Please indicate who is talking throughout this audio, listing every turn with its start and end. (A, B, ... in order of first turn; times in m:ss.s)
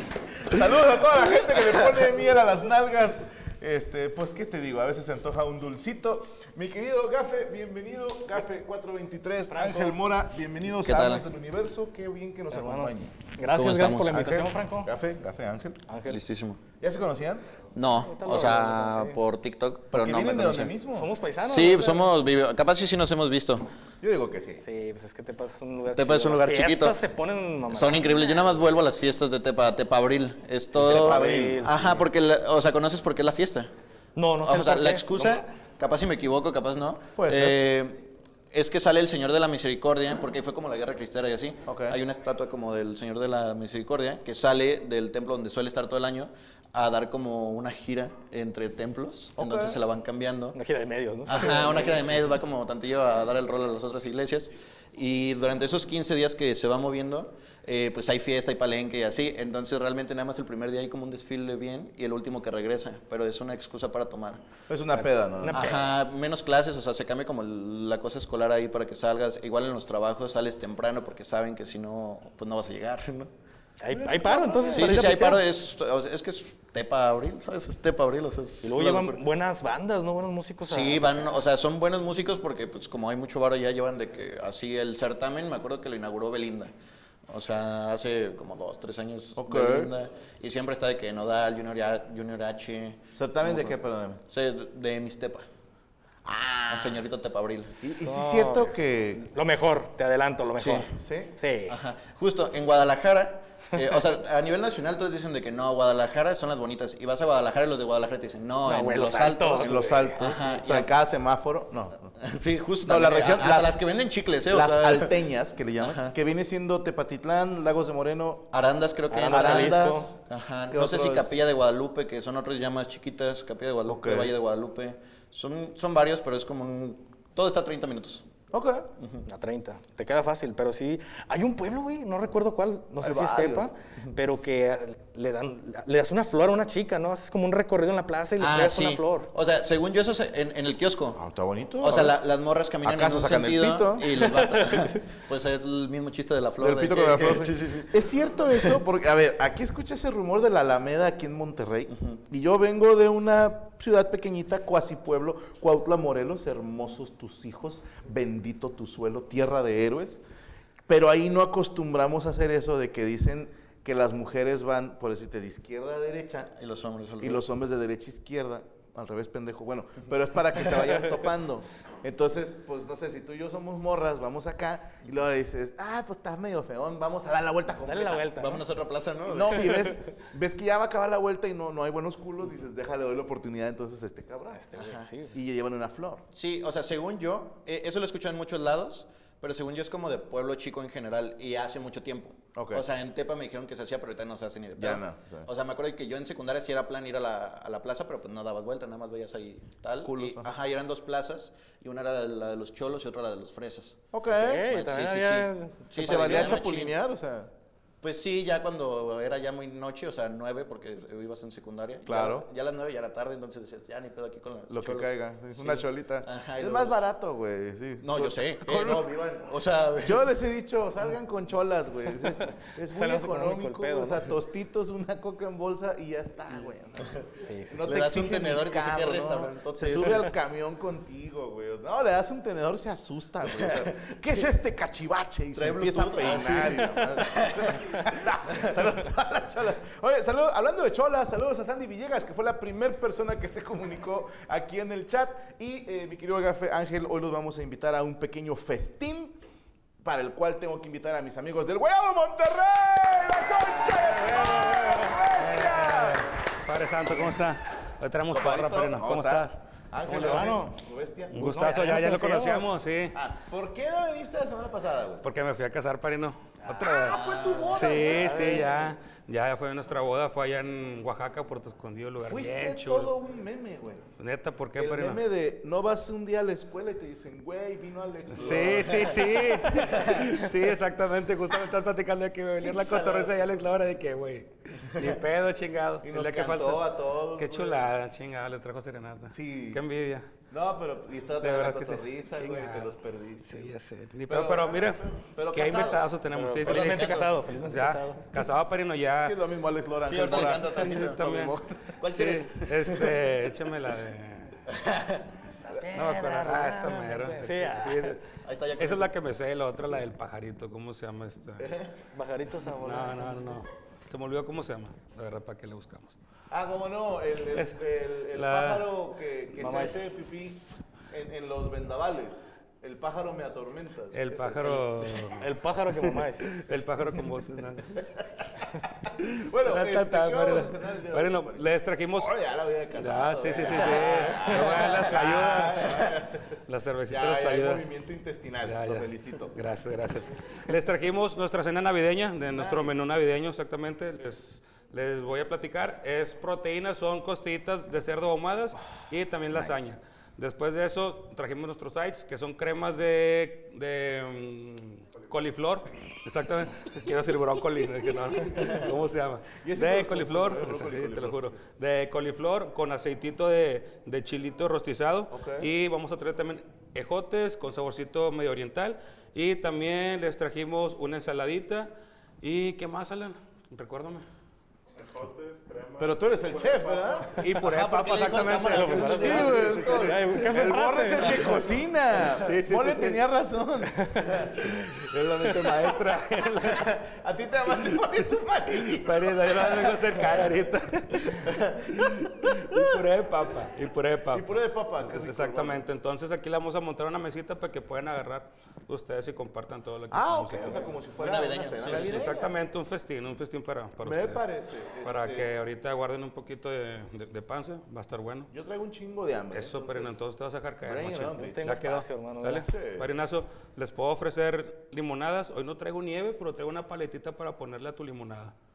0:00.4-0:13.2 A
0:09.5-0:10.0 B
0:10.8-0:11.3 C
0:12.5-0:14.9 B
0:13.5-0:14.4 C
0:14.1-0:15.8 A
0:15.9-0:16.2 B
0:16.0-0:16.6 C
0:16.8-0:17.5 A
0:17.7-0:20.8 C
0:18.0-0:19.2 B
0:19.9-0:21.2 A
0:20.9-0:22.1 B
0:21.4-0:23.7 C
0:24.0-0:24.6 A
0:24.6-0:28.3 B
0:25.9-0:27.0 C
0:27.7-0:33.7 C
0:30.8-0:32.0 B
0:30.8-0:31.8 A
0:34.2-0:35.1 B
0:34.4-0:50.6 C
0:37.2-0:37.6 A
0:41.7-0:42.0 A
0:49.4-0:49.8 A
0:50.5-0:52.1 B
0:51.2-1:04.5 C
1:04.7-1:05.8 A
1:05.0-1:05.9 B
1:05.5-1:13.3 C
1:13.8-1:15.4 B
1:13.9-1:15.0 A
1:14.7-1:19.2 C
1:18.6-1:21.4 B
1:20.6-1:26.7 C
1:27.3-1:33.7 C
1:29.4-1:29.9 A
1:33.2-1:34.2 A
1:34.2-1:35.5 C
1:36.2-1:37.0 A
1:36.7-1:37.8 C
1:37.8-1:39.2 A
1:37.8-1:41.8 B
1:40.6-1:40.9 C
1:40.9-1:41.3 A
1:41.7-1:50.9 C
1:48.6-1:50.2 B
1:49.6-1:52.1 A
1:52.2-1:55.2 C
1:52.8-1:53.8 A
1:54.5-1:58.5 A
1:55.8-1:56.2 C
1:58.5-2:08.3 C
1:59.1-2:00.1 B
1:59.2-2:00.2 A
2:00.7-2:01.4 A
2:03.9-2:04.3 A
2:08.5-2:08.9 A
2:09.0-2:09.3 C
2:09.3-2:19.3 B
2:13.0-2:13.7 A
2:18.4-2:21.2 C
2:21.2-2:22.2 A
2:21.8-2:28.8 C
2:22.8-2:24.2 A
2:24.3-2:25.0 B
2:26.6-2:40.2 A
2:40.9-2:46.5 A
2:46.5-2:47.5 C
2:47.2-2:58.5 A
2:57.8-2:58.6 B
2:58.1-3:00.0 C
2:59.3-3:04.6 A
3:04.5-3:05.3 B
3:04.8-3:05.1 C
3:05.3-3:06.2 A
3:06.3-3:24.0 C
3:12.6-3:12.8 A
3:14.8-3:15.5 A
3:20.0-3:20.5 A
3:24.1-3:24.7 A
3:24.3-3:26.6 B
3:24.6-3:27.0 C
3:26.0-3:27.5 A
3:28.0-3:37.0 C
3:32.1-3:32.5 A
3:34.7-3:39.5 A
3:38.0-3:40.3 C
3:40.0-4:09.4 A
3:42.9-3:44.3 B
3:47.4-3:47.9 B
3:47.8-3:50.3 C
3:55.5-3:58.0 C
4:10.0-4:16.3 A
4:13.9-4:15.8 B
4:14.3-4:20.6 D
4:18.3-4:21.3 A
4:20.0-4:20.8 B
4:21.3-4:23.2 D
4:21.4-4:22.8 B
4:23.1-4:25.3 A
4:25.2-4:33.2 D
4:26.7-4:26.9 B
4:26.7-4:29.0 A
4:27.0-4:28.1 C
4:28.0-4:28.8 B
4:32.2-4:34.0 A
4:34.2-4:35.2 D
4:34.8-4:40.2 A
4:38.3-4:50.3 D
4:42.6-4:43.3 A
4:46.0-4:47.9 A
4:49.3-4:49.8 A
4:50.5-4:53.8 A
4:51.4-4:59.4 D
4:54.3-4:57.2 A
4:56.6-4:58.3 B
4:56.6-4:57.2 C
4:59.2-5:02.0 A
5:00.0-5:03.2 C
5:00.2-5:04.6 D
5:04.7-5:05.3 C
5:05.6-5:08.2 B
5:05.8-5:08.2 D
5:08.4-5:09.1 C
5:08.8-5:11.7 D
5:11.6-5:11.9 A
5:12.1-5:13.5 B
5:12.7-5:16.2 D
5:16.5-5:25.4 A
5:17.5-5:17.8 D
5:18.3-5:18.9 D
5:19.6-5:20.0 B
5:24.1-5:28.0 D
5:25.4-5:26.6 B
5:28.0-5:36.4 A
5:29.2-5:32.4 D
5:32.9-5:37.9 D
5:37.1-5:39.6 A
5:38.6-6:14.2 D
5:42.5-5:43.0 A
5:59.6-6:01.4 A
6:05.3-6:05.7 A
6:16.0-6:26.1 A
6:17.3-6:18.7 D
6:17.5-6:20.3 C
6:18.7-6:21.5 B
6:21.2-6:21.5 C
6:22.2-6:23.3 D
6:23.9-6:24.3 B
6:24.3-6:27.0 D
6:26.6-6:30.6 A
6:28.7-6:41.0 D
6:31.3-6:31.8 A
6:34.3-6:35.8 A
6:40.1-6:42.6 A
6:41.2-6:42.5 C
6:41.8-6:44.5 D
6:44.0-6:45.5 A
6:45.0-6:48.5 D
6:48.5-6:50.2 A
6:49.5-6:58.5 D
6:50.8-6:51.8 A
6:51.4-6:52.7 B
6:52.6-6:53.1 A